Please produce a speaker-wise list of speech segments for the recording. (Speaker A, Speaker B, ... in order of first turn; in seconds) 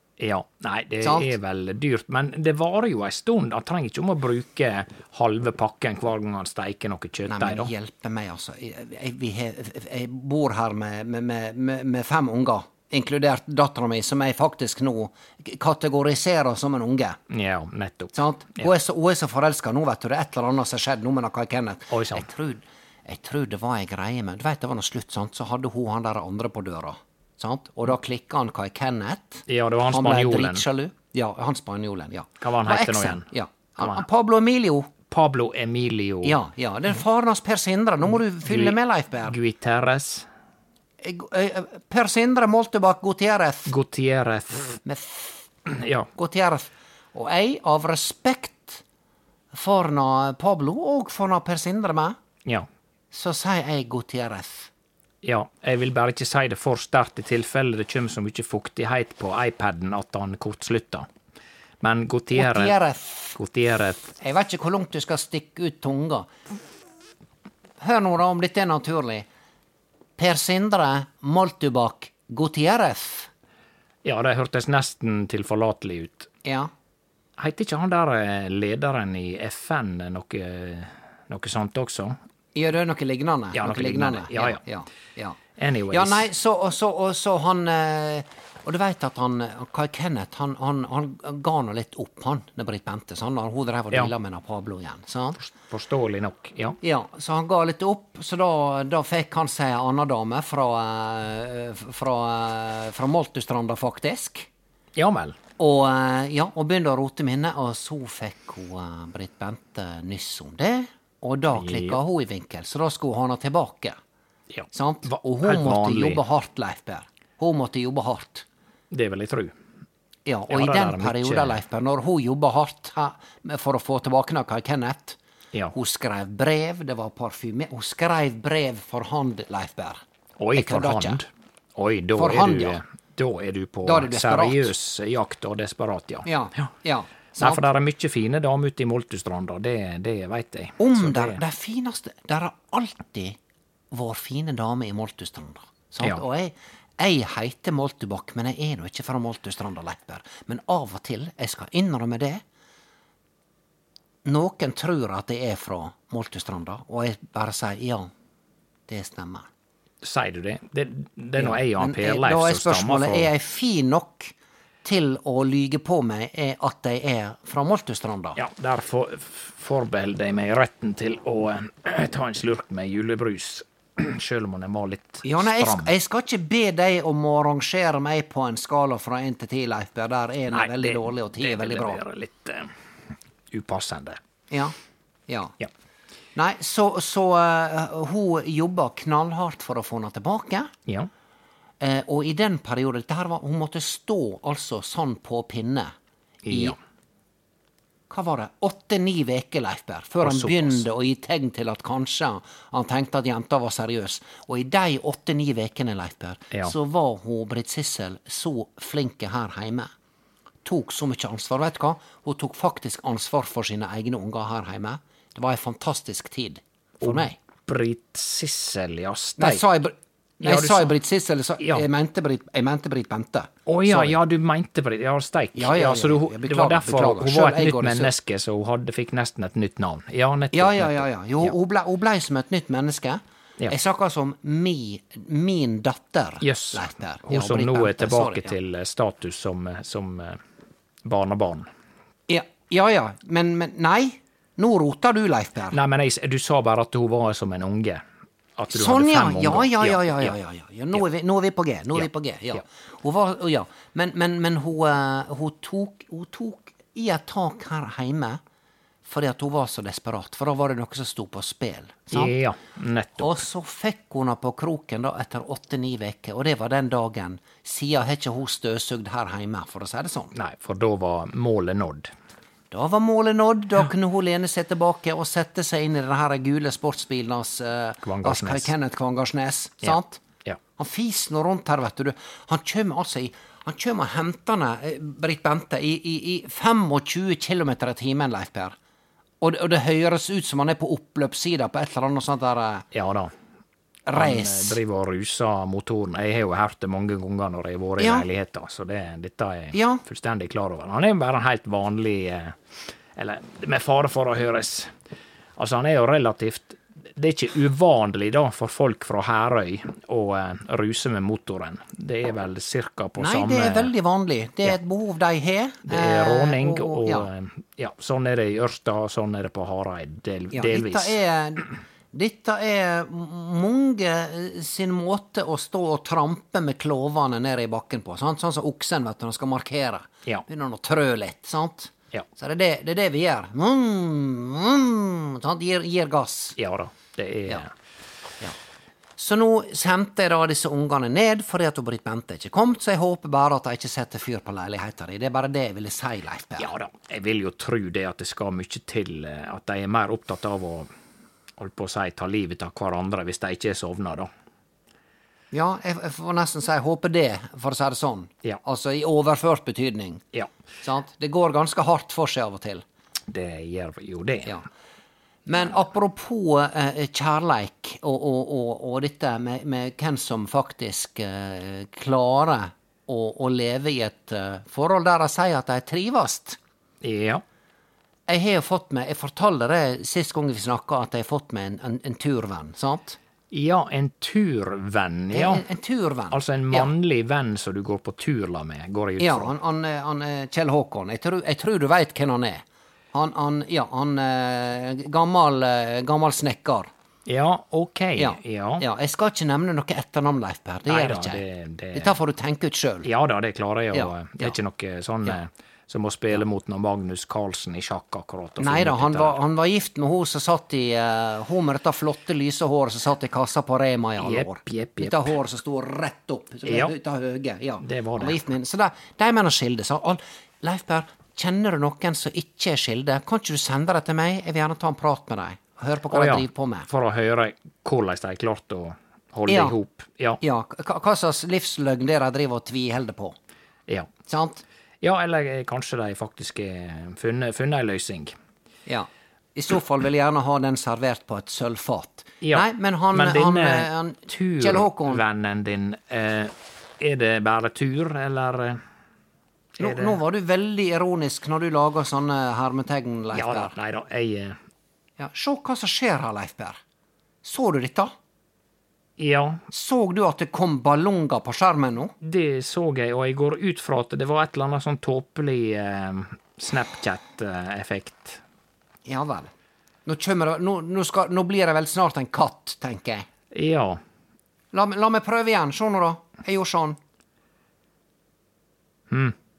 Speaker A: 0.2-7.7, 17.3-18.7, 21.9-22.2, 29.5-30.6, 32.4-33.3, 35.1-36.4, 38.4-40.3, 43.7-44.8, 45.7-46.1, 55.2-61.1, 61.8-62.8, 63.3-64.1, 74.0-76.3, 77.4-82.2, 83.5-84.6, 85.6-86.3, 95.4-96.8, 105.0-105.4, 111.5-112.0, 114.5-116.2, 118.9-119.5, 120.5-121.6, 130.4-136.7, 137.4-141.4, 160.0-163.3, 168.4-175.9, 180.5-182.7, 183.5-184.2, 196.4-196.8, 200.2-200.8, 217.0-219.6, 220.4-220.9, 223.7-231.5, 236.4-240.4, 241.0-241.7, 245.7-248.0, 248.6-250.3, 262.1-263.4, 270.3-272.1, 278.0-278.7, 279.8-280.6, 292.9-293.3, 294.1-304.9, 305.6-313.9, 315.9-321.1, 336.6-337.7, 346.6-350.9, 351.6-354.3, 363.3-364.5, 377.0-377.4, 383.5-385.6, 386.3-389.5, 397.2-398.8, 400.9-402.1, 403.0-409.4, 414.2-415.3, 416.6-416.9, 417.8-418.4, 426.1-430.4, 435.0-438.3, 442.4-448.8, 449.8-450.2, 453.3-454.6, 459.2-459.6, 462.2-468.4, 473.5-474.0, 479.1-479.3
Speaker B: 1.0-1.3, 7.3-17.2, 18.1-34.9, 36.2-39.3, 41.0-43.7, 44.9-45.5, 46.1-48.8, 49.5-52.2, 53.1-54.7, 62.3-63.4, 64.2-66.3, 67.8-69.2, 70.2-73.3, 76.4-76.7, 82.5-85.4, 85.9-95.4, 96.8-104.5, 105.6-114.0, 114.7-118.4, 120.2-125.2, 125.7-130.0, 130.5-131.2, 132.2-132.8, 133.8-134.7, 136.2-137.6, 140.8-143.4, 143.9-152.4, 154.2-158.1, 158.9-159.5, 161.4-164.3, 164.8-168.4, 175.2-182.0, 185.3-185.5, 186.3-190.7, 191.8-195.9, 196.5-196.7, 198.1-209.9, 210.6-217.3, 219.4-224.2, 225.5-228.1, 230.5-238.5, 242.3-245.8, 248.7-258.4, 259.1-262.3, 263.2-270.3, 272.7-280.2, 280.8-288.8, 289.4-292.9, 294.1-294.8, 298.0-298.2, 299.7-300.0, 313.2-317.3, 320.5-336.6, 339.2-346.7, 355.5-360.2, 360.8-362.8, 365.5-376.6, 378.3-383.2, 385.3-386.9, 389.2-396.9, 398.2-401.4, 401.9-403.1, 403.9-404.6, 408.6-426.9, 429.5-429.8, 430.4-433.4, 434.3-434.6, 438.9-445.2, 449.8-453.7, 455.2-456.8, 457.4-458.1, 459.7-462.1, 469.1-469.5, 470.1-473.2, 474.7-477.0